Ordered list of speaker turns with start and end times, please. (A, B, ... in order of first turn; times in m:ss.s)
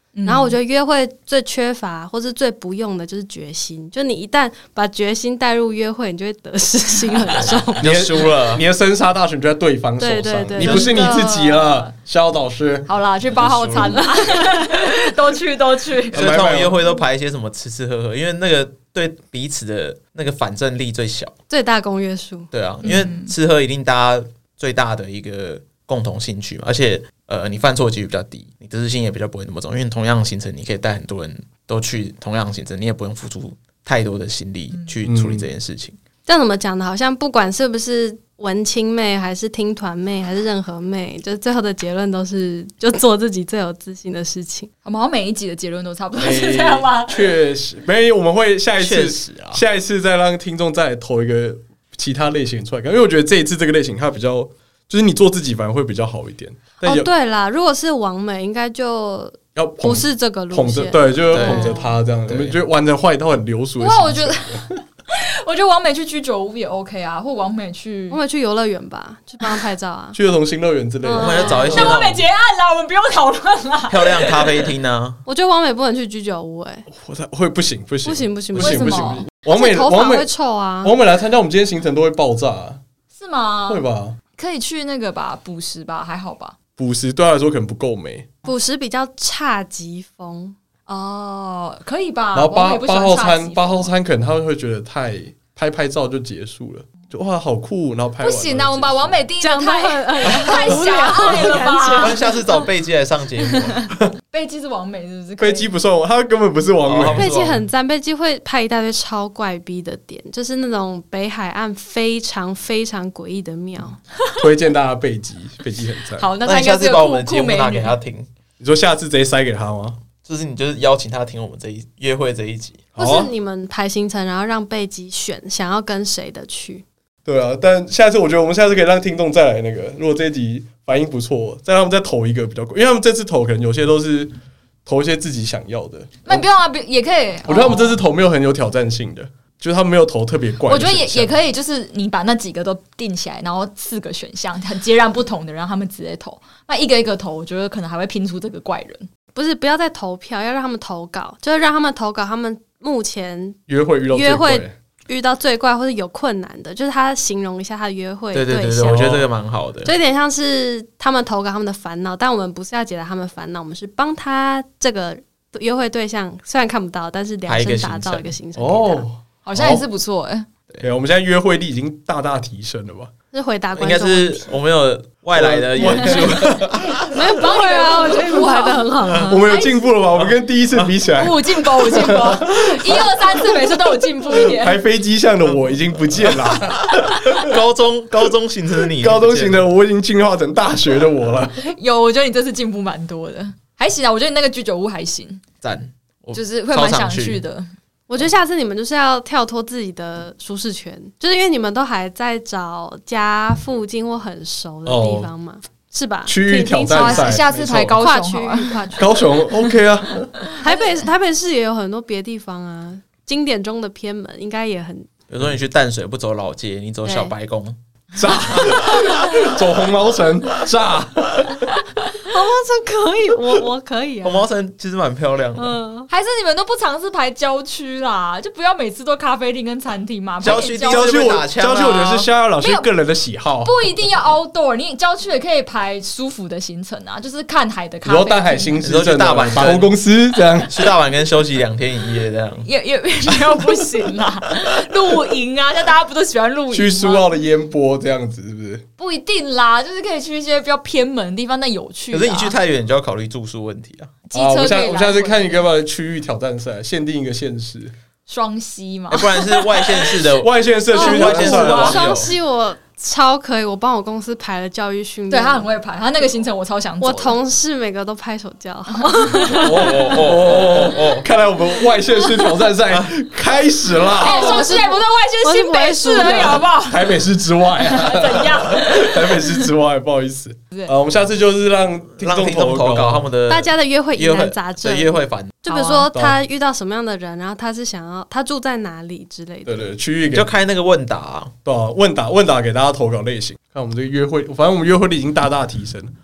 0:00.1-0:00.6 A
0:00.2-0:08.1 B
0:07.8-0:08.7 C
0:07.8-0:12.9 D
0:10.0-0:11.4 B
0:10.6-0:11.0 C
0:10.7-0:11.9 A
0:12.8-0:16.2 A
0:13.3-0:14.1 C
0:14.0-0:14.6 B
0:16.1-0:16.8 D
0:16.1-0:21.3 C
0:21.5-0:22.5 B
0:22.5-0:36.0 C
0:22.8-0:23.3 A
0:35.0-0:35.5 D
0:36.2-0:44.7 B
0:44.8-0:47.3 A
0:46.2-0:57.1 D
0:48.8-0:49.6 C
0:56.8-1:01.9 B
0:59.5-1:04.6 D
1:01.3-1:02.6 C
1:03.8-1:08.2 A
1:08.1-1:10.2 B
1:10.1-1:12.0 D
1:11.0-1:12.0 B
1:11.2-1:12.2 C
1:11.7-1:14.7 A
1:13.9-1:15.2 C
1:15.2-1:16.9 B
1:16.9-1:20.3 D
1:18.0-1:20.9 B
1:18.5-1:19.3 A
1:20.8-1:22.8 D
1:23.1-1:23.8 A
1:23.7-1:24.2 D
1:24.4-1:26.5 A
1:26.8-1:28.3 D
1:28.4-1:30.6 B
1:30.9-1:33.9 A
1:32.3-1:39.2 D
1:38.2-1:42.2 A
1:39.4-1:42.4 B
1:41.5-1:43.9 C
1:43.9-1:45.7 A
1:45.4-1:47.3 D
1:46.8-1:47.6 C
1:47.1-1:54.0 B
1:54.4-1:56.2 D
1:56.2-1:58.0 A
1:56.4-1:58.3 C
1:58.6-2:00.0 D
2:00.2-2:02.8 C
2:03.0-2:03.3 D
2:03.0-2:06.8 B
2:07.2-2:16.4 D
2:16.2-2:17.9 A
2:17.4-2:21.3 D
2:20.6-2:29.1 A
2:29.3-2:39.2 B
2:33.7-2:34.7 D
2:38.3-2:39.9 C
2:38.8-2:39.3 D
2:39.8-2:49.0 B
2:47.5-2:48.3 C
2:48.6-2:49.8 D
2:49.4-2:50.5 A
2:50.8-2:53.1 D
2:53.3-2:54.5 B
2:53.8-2:57.1 C
2:55.3-2:57.0 D
2:55.9-2:56.1 A
2:57.0-2:59.0 A
2:57.0-2:59.7 B
2:59.2-3:03.7 D
2:59.5-2:59.7 A
3:01.2-3:04.8 A
3:04.3-3:07.5 D
3:06.9-3:09.7 C
3:08.9-3:11.6 D
3:11.6-3:15.4 A
3:15.6-3:17.4 C
3:16.3-3:17.7 A
3:18.1-3:29.3 B
3:24.8-3:25.3 D
3:26.2-3:28.0 D
3:26.9-3:29.1 A
3:29.0-3:30.3 D
3:30.5-3:30.9 A
3:30.6-3:35.1 B
3:35.3-3:37.8 C
3:37.0-3:37.3 B
3:38.1-3:41.7 D
3:38.5-3:39.3 C
3:42.1-3:44.4 B
3:44.2-3:45.8 C
3:45.6-3:46.1 B
3:46.1-3:51.3 A
3:50.4-3:52.3 C
3:50.5-3:53.7 D
3:52.6-3:52.9 A
3:53.6-3:58.8 A
3:58.0-4:00.9 D
3:58.8-4:00.0 C
4:00.6-4:02.7 C
4:02.6-4:07.3 A
4:06.7-4:08.8 D
4:09.0-4:12.6 A
4:12.1-4:14.2 C
4:14.3-4:15.6 A
4:14.3-4:17.9 D
4:18.3-4:20.2 A
4:19.1-4:22.3 C
4:20.4-4:22.3 D
4:20.9-4:25.7 B
4:25.3-4:27.4 A
4:27.0-4:30.4 B
4:29.1-4:29.6 A
4:29.5-4:34.7 D
4:29.5-4:31.3 C
4:32.3-4:32.6 B
4:34.1-4:36.6 B
4:34.2-4:37.2 A
4:36.5-4:43.3 D
4:37.8-4:39.6 A
4:42.2-4:45.6 C
4:43.5-4:49.9 B
4:45.7-4:46.1 A
4:46.1-4:46.4 D
4:49.6-4:50.5 D
4:50.3-4:51.5 C
4:51.6-4:56.1 D